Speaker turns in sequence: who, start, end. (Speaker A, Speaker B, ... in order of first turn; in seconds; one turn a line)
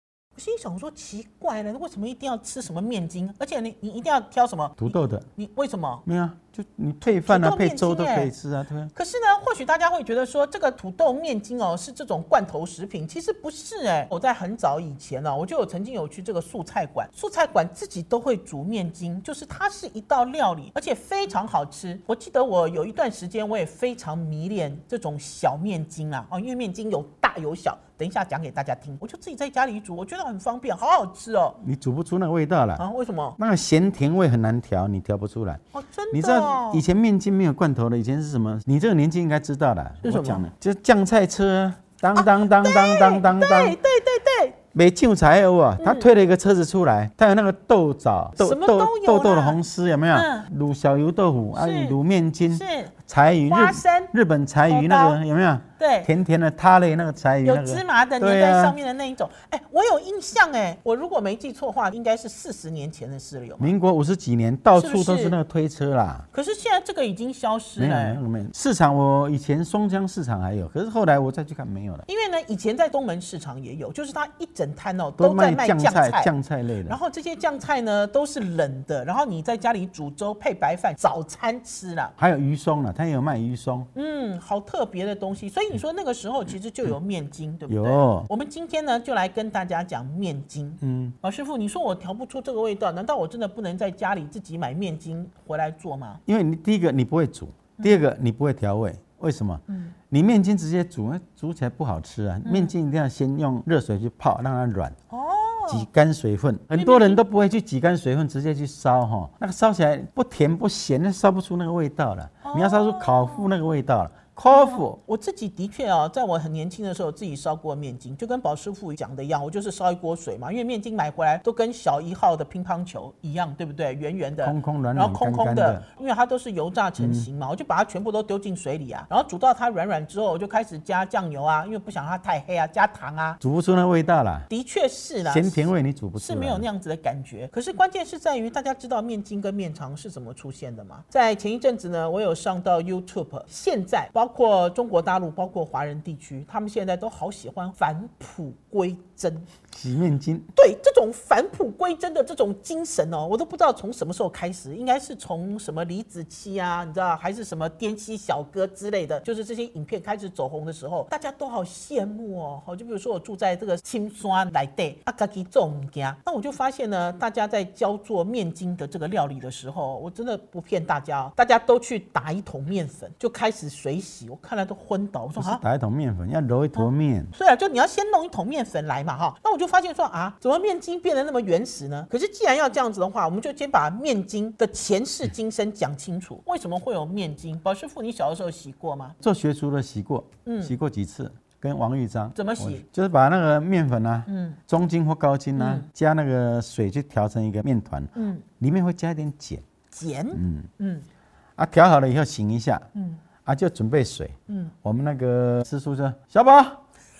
Speaker A: 0.4-6.0
Speaker B: 4.8-5.3
Speaker B: 6.1-8.9
Speaker A: 7.0-8.3
Speaker A: 8.9-31.6
Speaker B: 31.6-32.8
Speaker A: 32.8-33.4
Speaker B: 33.4-35.6
Speaker A: 35.7-36.8
Speaker B: 36.1-43.8
Speaker A: 40.0-40.5
Speaker A: 42.1-44.6
Speaker B: 44.7-58.8
Speaker A: 45.8-46.1
Speaker A: 48.4-49.6
Speaker A: 50.1-50.5
Speaker A: 51.5-52.0
Speaker A: 52.5-52.9
Speaker A: 53.5-54.1
Speaker A: 54.7-55.2
Speaker A: 55.8-56.1
Speaker A: 57.4-63.7
Speaker B: 63.6-66.3
Speaker A: 64.8-65.4
Speaker A: 66.3-68.2
Speaker B: 67.8-72.1
Speaker A: 72.1-76.3
Speaker B: 75.2-77.0
Speaker A: 76.9-82.2
Speaker B: 82.2-83.9
Speaker A: 84.0-96.2
Speaker B: 87.7-88.3
Speaker B: 90.8-91.2
Speaker B: 96.3-105.0
Speaker A: 99.7-99.9
Speaker A: 102.5-102.7
Speaker A: 105.1-105.9
Speaker B: 105.7-115.0
Speaker A: 106.7-107.2
Speaker A: 112.4-113.5
Speaker A: 114.5-133.4
Speaker B: 124.4-125.8
Speaker B: 127.0-127.3
Speaker B: 133.4-134.5
Speaker A: 134.5-149.5
Speaker B: 135.3-136.7
Speaker B: 149.7-150.5
Speaker A: 150.6-175.6
Speaker B: 175.4-177.3
Speaker A: 176.8-189.2
Speaker B: 189.2-199.6
Speaker A: 190.5-190.7
Speaker A: 192.3-192.8
Speaker A: 194.3-194.6
Speaker A: 195.6-195.9
Speaker A: 198.2-198.4
Speaker A: 199.9-201.1
Speaker B: 200.3-200.7
Speaker B: 201.6-202.9
Speaker A: 202.9-203.2
Speaker B: 203.4-206.8